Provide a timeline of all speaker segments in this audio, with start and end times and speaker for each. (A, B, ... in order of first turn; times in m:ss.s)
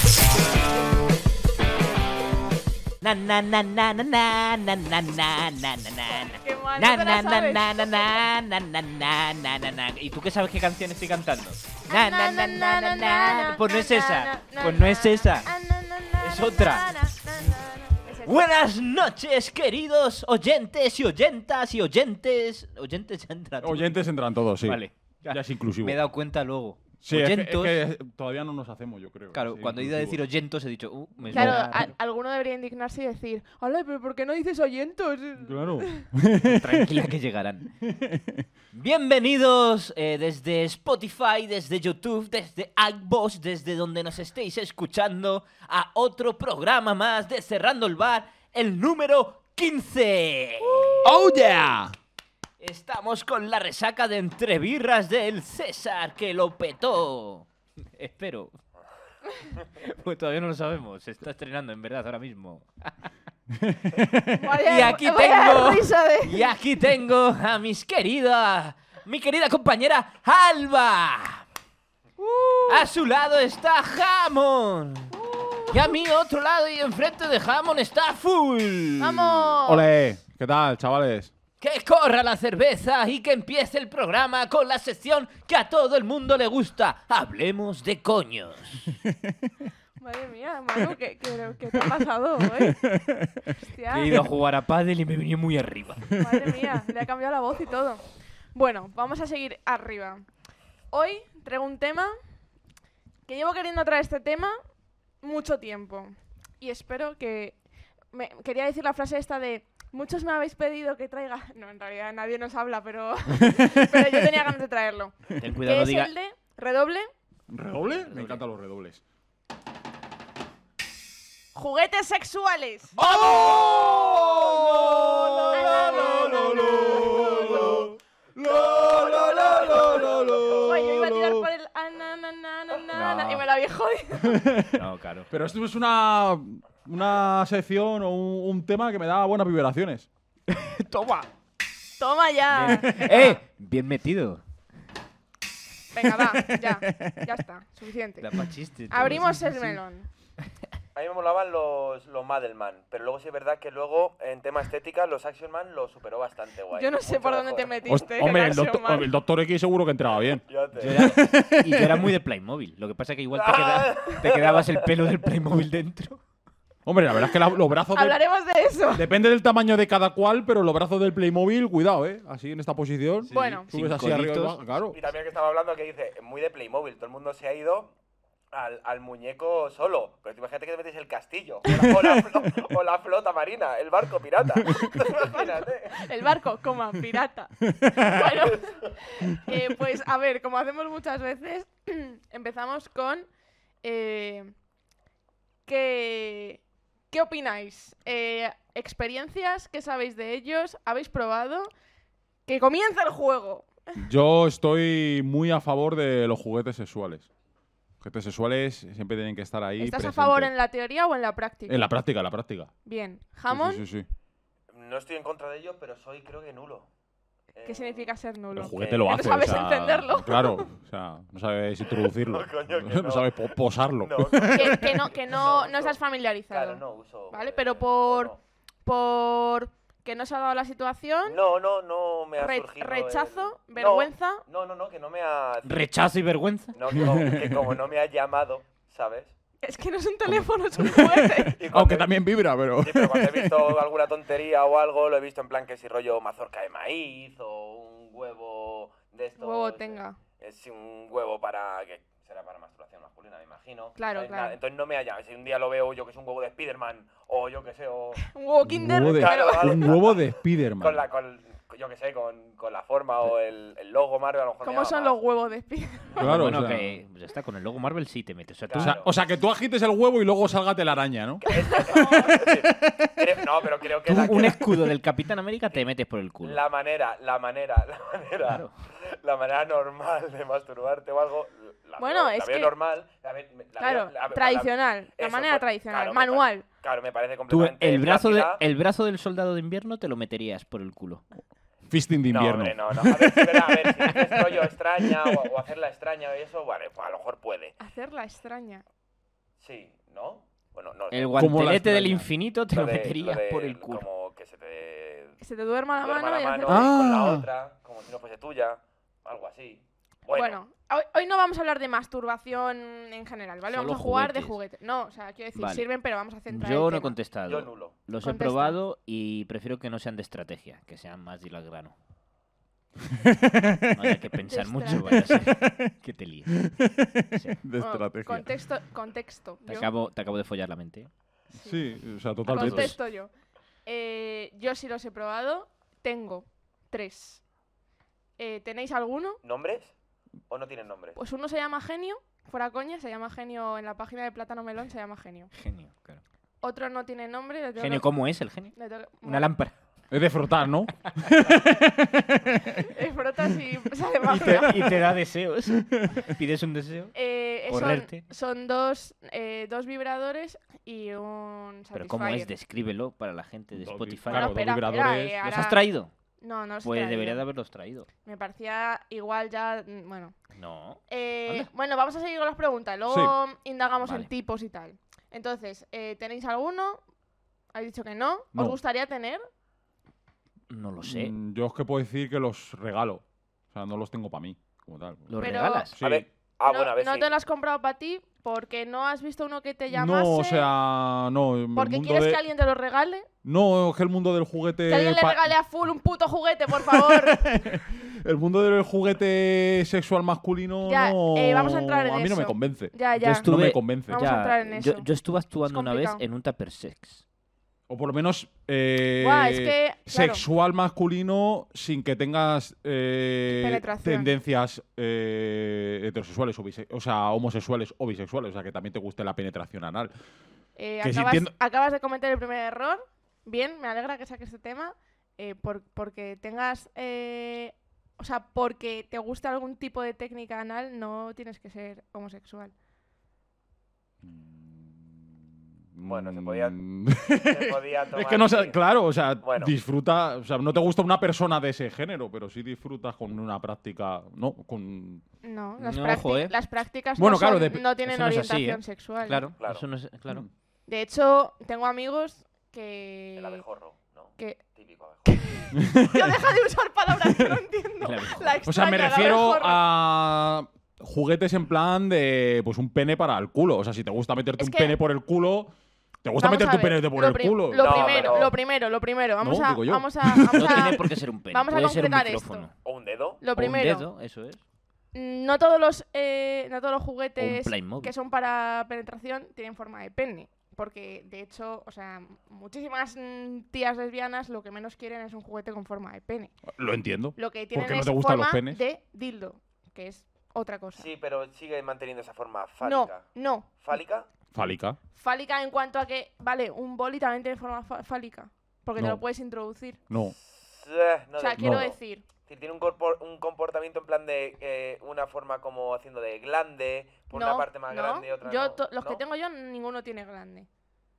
0:03.0-0:15.5 A
0:06.1-0:08.2 B
0:11.9-0:18.5 B
0:16.2-0:16.9 A
0:18.2-0:24.1 A
0:23.6-0:26.0 C
0:24.6-0:27.8 A
0:27.0-0:30.2 C
0:29.3-0:31.9 A
0:31.2-0:31.8 C
0:31.3-0:36.1 B
0:35.4-0:37.1 C
0:36.4-0:37.7 A
0:37.8-0:38.4 C
0:38.7-0:51.2 A
0:51.0-0:51.9 C
0:52.6-0:58.5 A
0:59.8-1:03.1 A
1:03.6-1:04.6 C
1:04.3-1:06.5 B
1:04.6-1:11.4 A
1:12.2-1:12.9 B
1:12.7-1:15.1 A
1:15.1-1:15.9 B
1:15.7-1:19.5 A
1:19.0-1:19.9 B
1:19.6-1:21.3 C
1:21.6-1:29.0 A
1:30.0-1:32.8 B
1:32.6-1:33.5 C
1:33.6-1:34.2 B
1:33.9-1:36.1 A
1:36.2-1:40.2 B
1:40.9-1:42.1 B
1:43.3-1:44.6 B
1:45.2-1:47.6 B
1:48.1-1:57.1 B
1:53.5-1:54.2 C
1:55.4-1:56.1 A
1:57.5-1:59.0 C
1:58.0-1:58.4 A
2:01.5-2:03.0 B
2:03.0-2:11.5 C
2:03.0-2:07.8 A
2:05.5-2:07.9 B
2:08.7-2:10.7 D
2:08.8-2:14.4 B
2:12.9-2:13.4 A
2:14.2-2:20.1 C
2:14.7-2:15.3 A
2:20.5-2:21.3 A
2:22.0-2:23.4 B
2:22.5-2:24.4 A
2:25.9-2:28.3 B
2:26.0-2:27.2 C
2:28.2-2:29.5 A
2:28.9-2:30.1 B
2:29.0-2:29.8 C
2:30.9-2:37.8 D
2:36.7-2:39.1 B
2:37.9-2:42.2 C
2:40.3-2:41.2 D
2:40.8-2:46.2 A
2:43.3-2:45.2 D
2:46.8-2:48.2 C
2:47.9-2:49.1 B
2:48.9-2:55.0 C
2:53.2-2:54.6 A
2:53.3-2:53.7 B
2:54.9-2:57.9 D
2:58.5-3:06.0 D
3:04.7-3:13.2 B
3:07.7-3:08.2 C
3:08.3-3:08.9 D
3:13.8-3:14.5 B
3:15.6-3:21.7 B
3:22.4-3:24.0 B
3:24.0-3:27.3 C
3:28.0-3:30.5 C
3:29.8-3:31.9 B
3:31.7-3:32.7 C
3:32.8-3:33.8 B
3:33.5-3:34.1 C
3:34.7-3:36.9 D
3:37.5-3:38.1 D
3:37.6-3:40.7 B
3:38.5-3:45.0 C
3:38.7-3:39.2 D
3:41.8-3:48.4 D
3:44.5-3:48.3 B
3:48.8-3:51.4 B
3:51.2-3:55.8 D
3:52.4-3:54.4 B
3:55.6-3:56.8 A
3:56.7-3:59.3 D
3:57.0-3:57.7 C
3:59.6-4:01.6 B
4:00.3-4:03.8 C
4:01.5-4:02.1 D
4:02.8-4:18.3 D
4:09.4-4:10.2 B
4:14.0-4:14.6 B
4:18.2-4:20.0 B
4:18.6-4:21.0 C
4:19.0-4:25.1 D
4:24.6-4:26.3 B
4:26.2-4:27.0 C
4:26.2-4:29.0 A
4:28.7-4:29.1 D
4:28.8-4:33.4 C
4:31.4-4:34.7 D
4:31.6-4:32.3 B
4:34.0-4:34.6 C
4:34.0-4:36.6 A
4:36.4-4:48.6 D
4:38.4-4:38.7 A
4:42.0-4:42.7 B
4:43.8-4:46.6 B
4:47.5-4:51.2 A
4:51.9-4:55.4 C
4:52.3-4:57.8 D
4:57.8-4:58.8 B
4:59.6-5:01.5 D
5:01.1-5:04.0 A
5:01.4-5:02.3 C
5:02.7-5:05.4 D
5:05.4-5:06.9 B
5:06.0-5:10.6 D
5:06.6-5:07.5 C
5:10.3-5:17.1 B
5:13.7-5:14.6 A
5:15.5-5:15.9 A
5:16.4-5:21.9 A
5:17.4-5:18.0 D
5:18.2-5:18.8 B
5:23.2-5:24.2 C
5:23.9-5:26.7 A
5:24.5-5:25.3 B
5:25.0-5:25.9 C
5:26.6-5:28.4 C
5:27.3-5:27.6 A
5:27.8-5:29.9 B
5:29.7-5:31.1 A
5:31.5-5:31.9 B
5:31.5-5:32.9 C
5:32.4-5:33.0 A
5:32.5-5:33.3 B
5:33.8-5:37.4 B
5:38.4-5:39.4 B
5:39.4-5:39.9 D
5:40.5-5:41.2 D
5:41.1-5:45.5 B
5:45.5-5:46.2 A
5:46.6-5:48.1 B
5:47.8-5:49.7 A
5:48.7-5:49.5 B
5:50.1-5:52.9 C
5:52.8-5:55.1 B
5:54.3-5:57.1 A
5:55.9-5:56.3 C
5:57.1-6:02.5 B
5:57.7-5:58.2 A
6:01.9-6:04.6 A
6:03.7-6:05.4 C
6:04.3-6:05.8 B
6:05.4-6:06.1 A
6:06.4-6:07.4 B
6:06.8-6:08.1 A
6:08.2-6:10.4 B
6:10.5-6:11.7 A
6:11.1-6:17.0 B
6:13.1-6:13.3 C
6:14.0-6:14.3 A
6:17.7-6:19.4 B
6:20.7-6:21.3 A
6:21.0-6:25.4 C
6:25.3-6:26.0 A
6:25.4-6:25.9 B
6:25.9-6:26.2 C
6:26.0-6:27.3 D
6:26.6-6:30.7 B
6:29.9-6:32.4 C
6:31.7-6:33.3 B
6:33.4-6:35.5 C
6:34.8-6:37.6 B
6:36.7-6:44.2 C
6:40.8-6:45.1 B
6:43.3-6:47.2 A
6:45.6-6:46.2 B
6:47.9-7:00.1 C
6:49.2-6:50.4 B
6:53.5-6:54.3 B
7:00.8-7:12.7 B
7:01.0-7:01.5 C
7:14.2-7:15.3 C
7:15.9-7:25.2 C
7:16.0-7:18.8 D
7:19.4-7:19.7 D
7:25.4-7:29.5 B
7:25.8-7:26.5 A
7:27.2-7:27.9 C
7:28.0-7:30.5 A
7:29.6-7:29.8 D
7:30.9-7:33.6 B
7:33.4-7:35.6 D
7:35.2-7:39.8 B
7:35.8-7:36.3 C
7:37.2-7:37.6 C
7:38.0-7:38.6 A
7:38.6-7:45.7 C
7:44.6-7:45.0 B
7:46.2-7:48.5 C
7:46.4-7:52.7 B
7:47.7-7:48.5 D
7:49.4-7:50.9 C
7:50.5-7:52.7 A
7:52.8-7:53.4 D
7:53.4-7:54.1 B
7:53.6-7:54.6 A
7:55.1-8:06.6 B
7:57.4-7:58.1 A
8:06.7-8:08.8 C
8:07.4-8:11.1 B
8:10.9-8:14.3 D
8:12.8-8:13.7 B
8:14.5-8:15.0 C
8:15.1-8:20.0 B
8:19.0-8:19.2 C
8:20.1-8:20.3 C
8:20.3-8:29.2 D
8:21.4-8:22.2 B
8:21.6-8:21.9 C
8:27.3-8:30.7 B